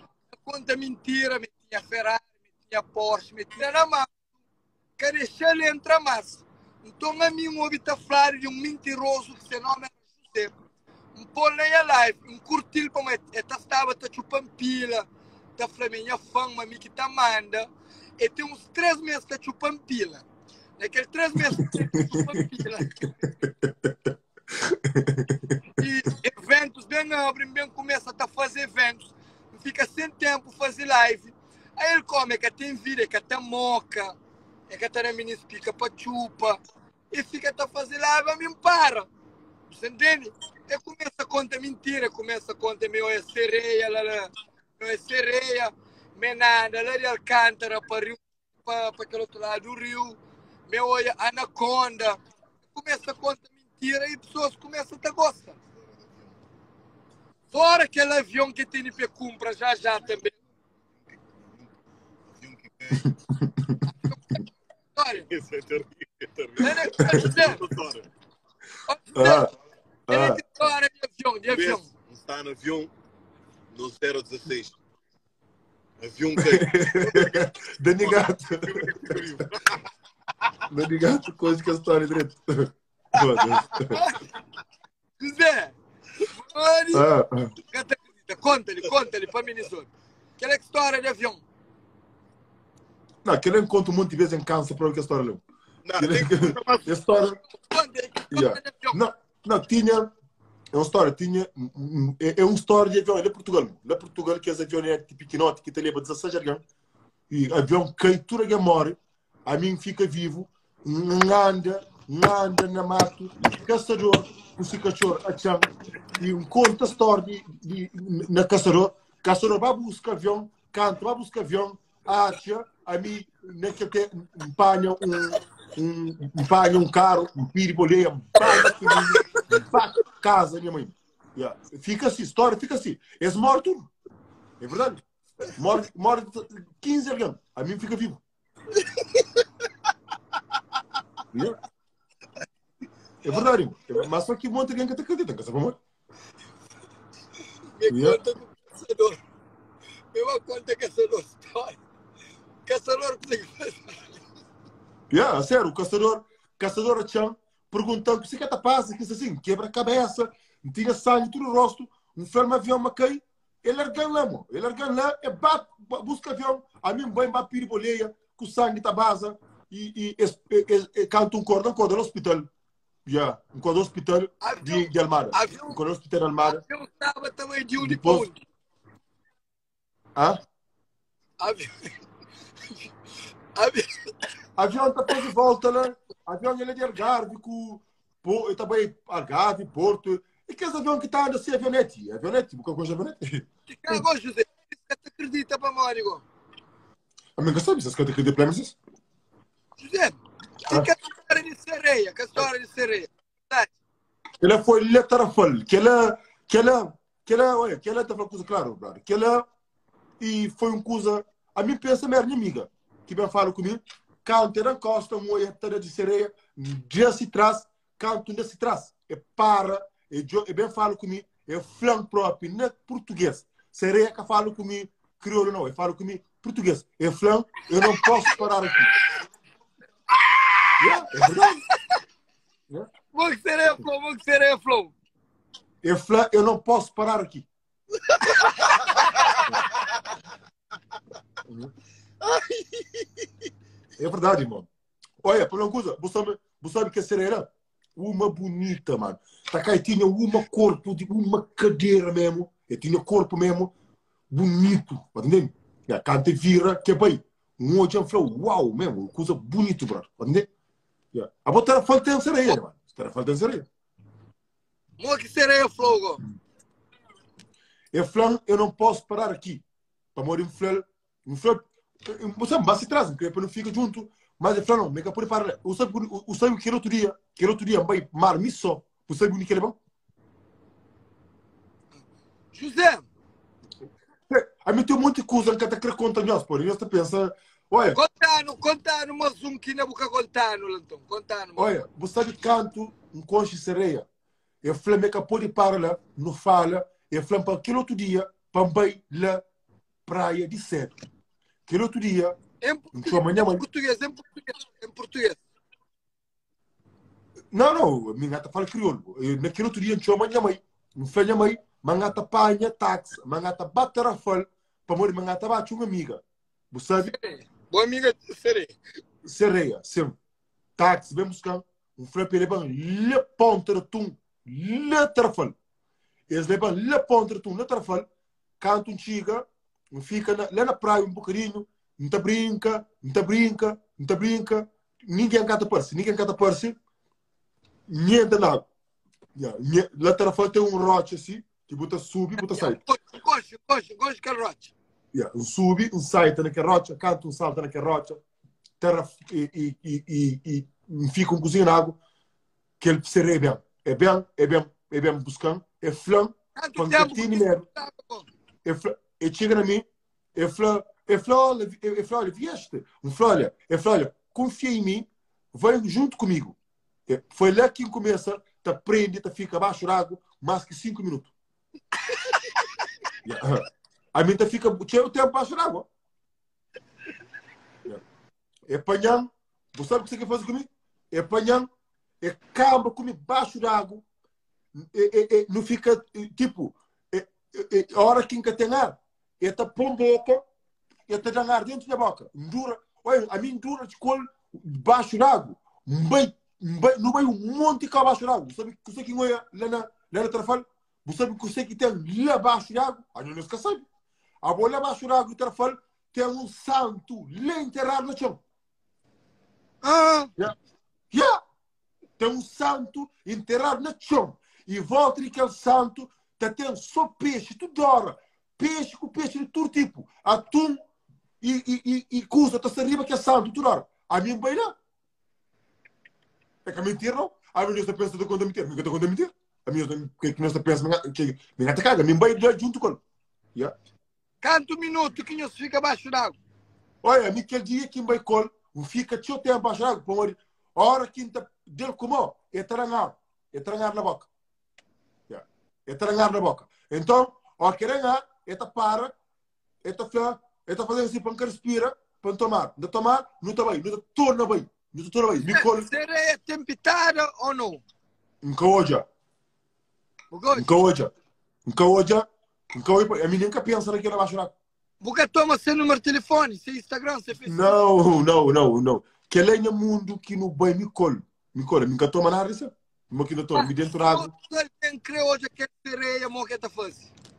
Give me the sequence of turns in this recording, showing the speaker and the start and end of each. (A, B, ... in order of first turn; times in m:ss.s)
0:00.4-0:04.1 A
0:05.0-0:10.5 A
0:11.2-0:20.2 A
0:20.8-0:23.0 A
0:21.5-0:22.9 B
0:23.4-0:25.6 B
0:25.8-0:34.2 A
0:34.7-0:39.1 A
0:39.7-0:52.2 A
0:52.7-0:55.6 A
0:57.5-1:00.3 A
1:01.2-1:01.7 C
1:02.3-1:03.0 C
1:03.0-1:03.8 B
1:03.9-1:04.4 A
1:05.0-1:05.3 A
1:05.2-1:08.1 C
1:06.6-1:07.6 A
1:06.6-1:07.2 B
1:08.9-1:09.4 A
1:09.2-1:09.5 B
1:10.1-1:10.4 B
1:10.1-1:11.9 A
1:11.5-1:12.9 C
1:13.7-1:14.8 C
1:16.0-1:17.4 C
1:16.4-1:19.2 B
1:18.0-1:19.8 C
1:20.7-1:24.0 B
1:24.0-1:24.2 A
1:25.2-1:25.8 A
1:26.3-1:27.1 A
1:26.9-1:27.5 B
1:27.7-1:31.4 A
1:33.2-1:35.4 B
1:35.8-1:36.9 C
1:36.0-1:37.4 B
1:37.6-1:39.0 A
1:38.3-1:40.1 B
1:40.7-1:46.6 B
1:47.3-2:13.9 B
2:08.5-2:09.0 A
2:14.6-2:18.2 B
2:18.7-2:19.4 A
2:21.3-2:21.6 B
2:23.2-2:25.8 B
2:27.8-2:29.2 A
2:27.9-2:28.2 B
2:30.1-2:31.8 A
2:32.6-2:34.2 A
2:35.1-2:52.5 B
2:53.1-2:56.6 B
2:54.4-2:55.8 A
2:56.5-2:58.4 A
2:57.8-2:58.3 B
3:01.4-3:01.9 A
3:03.6-3:04.1 A
3:04.6-3:14.0 B
3:13.7-3:16.2 A
3:17.4-3:18.8 B
3:19.8-3:23.7 A
3:24.4-3:29.5 B
3:30.2-3:48.9 B
3:50.8-3:51.6 B
3:51.7-3:52.0 A
3:53.1-3:54.9 A
3:55.8-3:57.5 B
3:58.1-3:59.2 A
4:02.3-4:02.8 C
4:04.0-4:04.7 B
4:05.2-4:13.7 B
4:14.3-4:20.5 B
4:21.1-4:23.7 B
4:25.0-4:26.2 A
4:27.9-4:29.6 B
4:30.2-4:39.8 B
4:42.5-4:43.1 A
4:44.3-4:48.0 B
4:48.0-4:51.7 A
4:51.6-4:54.1 B
4:54.6-4:59.4 B
5:00.1-5:01.0 B
5:01.7-5:02.4 B
5:02.6-5:05.4 A
5:02.9-5:03.6 B
5:07.5-5:17.1 B
5:17.1-5:18.8 A
5:19.2-5:20.2 B
5:20.8-5:25.6 B
5:26.3-5:28.1 B
5:28.6-5:36.8 B
5:37.9-5:38.7 B
5:39.4-5:42.8 B
5:42.4-5:44.7 A
5:45.1-5:48.2 B
5:48.8-5:52.0 B
5:52.8-5:57.7 B
5:56.6-5:58.3 A
5:58.6-6:11.3 B
6:12.2-6:12.7 A
6:13.2-6:15.9 B
6:18.7-6:21.7 B
6:22.2-6:24.0 B
6:24.8-6:30.4 B
6:31.1-6:43.8 B
6:44.4-6:48.4 B
6:49.8-6:50.3 A
6:51.1-6:51.4 B
6:52.2-7:00.8 B
7:01.4-7:04.8 B
7:06.6-7:13.0 B
7:14.4-7:16.4 A
7:17.0-7:24.3 B
7:25.3-7:29.2 B
7:29.8-7:35.9 B
7:35.4-7:37.8 A
7:38.4-7:39.1 B
7:40.3-7:40.7 A
7:40.5-7:41.1 B
7:41.7-7:44.5 B
7:45.0-7:47.8 A
7:47.4-7:54.3 B
7:53.6-7:57.1 A